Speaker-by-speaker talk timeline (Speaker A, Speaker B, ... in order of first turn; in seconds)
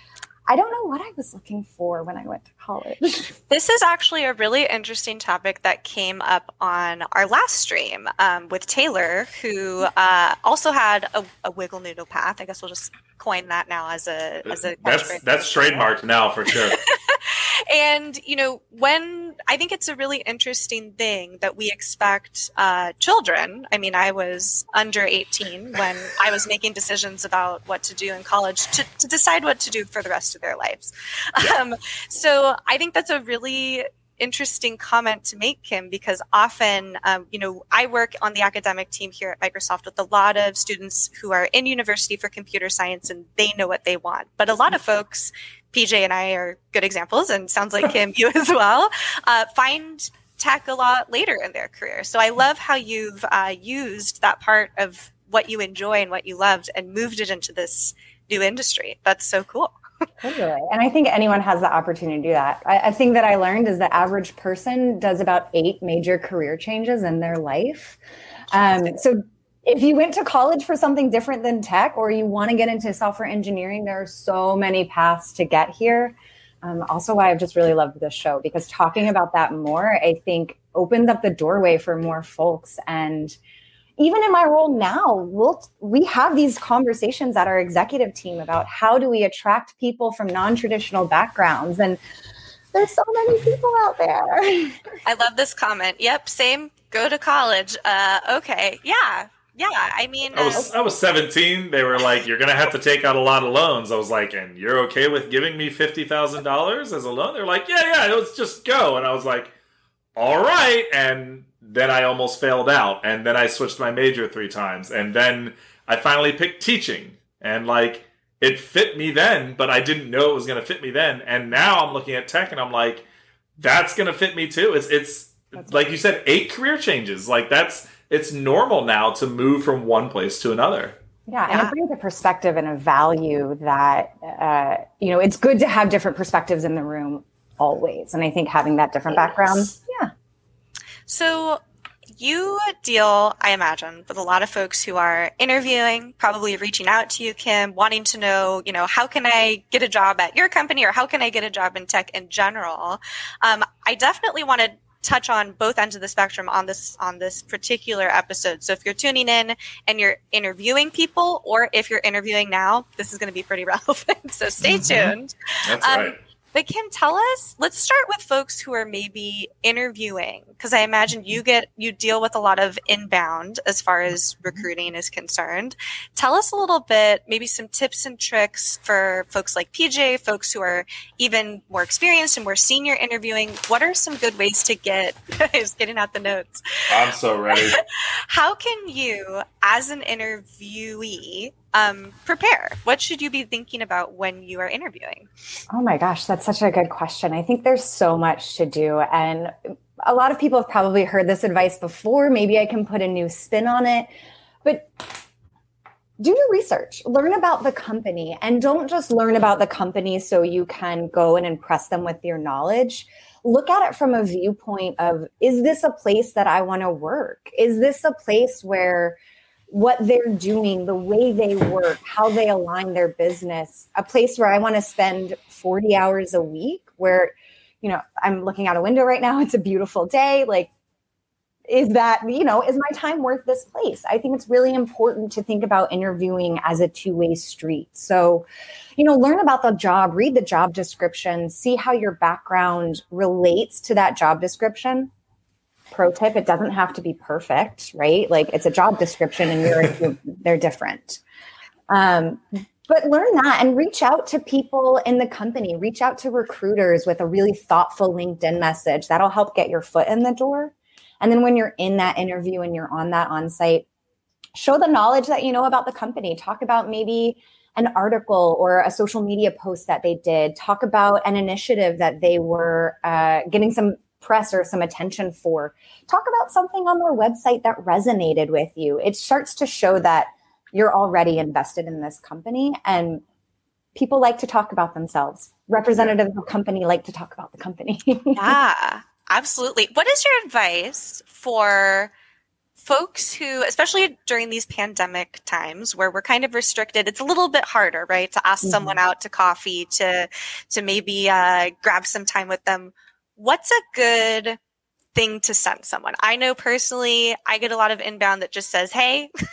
Speaker A: 0.5-3.3, 60.2-68.0, 68.5-83.4, 84.0-92.0, 92.7-94.8, 131.3-140.1, 195.7-204.1, 204.6-205.1, 206.2-219.2, 219.7-230.7, 231.7-245.1, 245.9-251.2, 251.9-263.9, 264.5-283.2, 283.9-288.6, 298.6-299.0
Speaker B: 3.5-15.9, 16.5-59.7, 95.0-100.7, 131.5-131.7, 141.1-141.6, 142.2-186.8, 187.5-195.3, 288.3-292.1, 292.8-304.6, 305.1-309.3
Speaker C: 14.4-16.8, 100.3-109.5, 110.2-123.0, 123.6-130.9, 164.6-165.1, 165.7-166.2, 186.9-187.8